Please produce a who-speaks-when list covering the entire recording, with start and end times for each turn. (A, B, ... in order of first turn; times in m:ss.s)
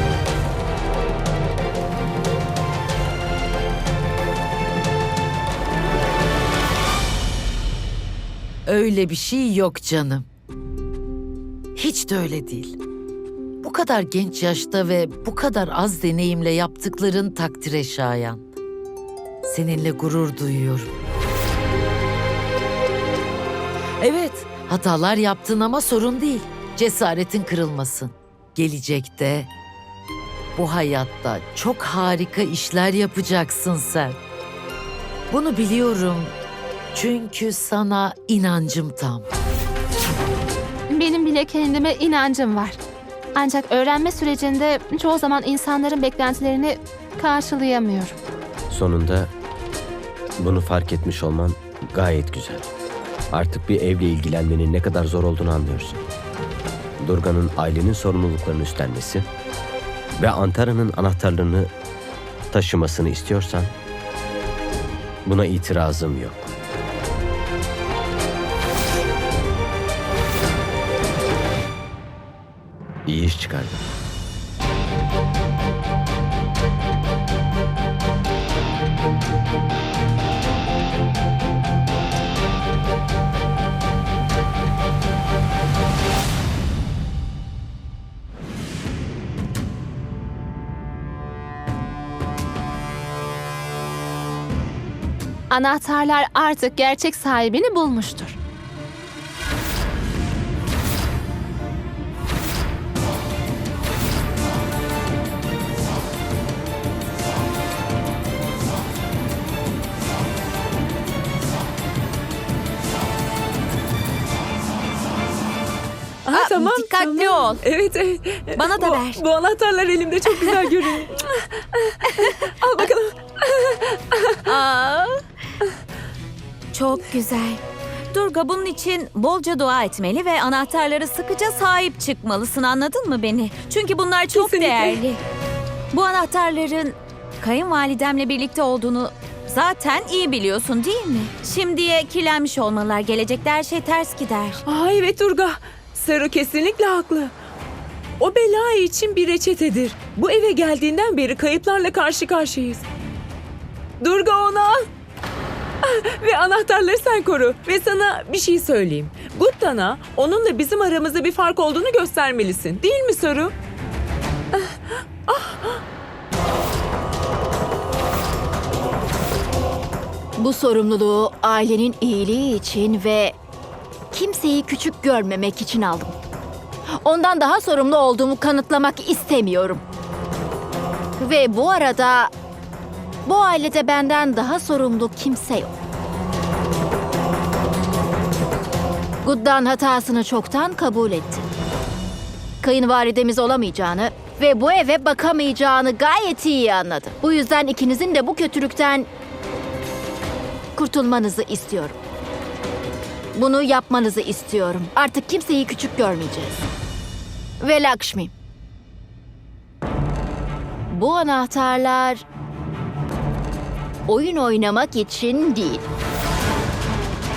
0:08.6-0:10.3 A
0:11.8-0:12.8 A
0:13.6-0:18.4 A
0:19.4-0:20.9 A
0:24.0-0:29.5 A
0:30.5-0:34.2 A
0:35.3-0:36.4 A
0:36.9-0:39.3 A
0:40.9-0:42.8 B
0:43.3-0:48.2 B
0:48.7-0:49.3 C
0:50.4-0:52.7 C
0:53.3-0:56.0 C
0:57.0-0:59.3 C
1:00.2-1:01.7 C
1:02.5-1:03.7 C
1:05.2-1:06.5 C
1:13.0-1:13.8 C
1:35.5-1:38.4 B
1:56.2-2:04.4 D
1:56.3-1:57.6 E
1:58.6-1:59.2 E
2:00.3-2:00.7 E
2:02.1-2:02.4 E
2:04.4-2:05.1 E
2:06.7-2:07.6 E
2:08.1-2:15.2 E
2:14.3-2:15.0 D
2:15.9-2:24.6 E
2:24.6-2:27.3 D
2:28.2-2:32.8 D
2:34.0-2:34.9 D
2:35.8-2:43.5 D
2:44.5-2:45.8 D
2:50.4-2:53.4 F
2:54.1-2:56.2 F
2:57.0-2:59.8 F
3:01.2-3:02.3 F
3:03.2-3:05.7 F
3:09.2-3:11.4 F
3:12.6-3:19.1 F
3:20.7-3:22.0 F
3:23.3-3:26.6 F
3:27.6-3:28.3 F
3:30.9-3:32.2 F
3:34.1-3:35.9 F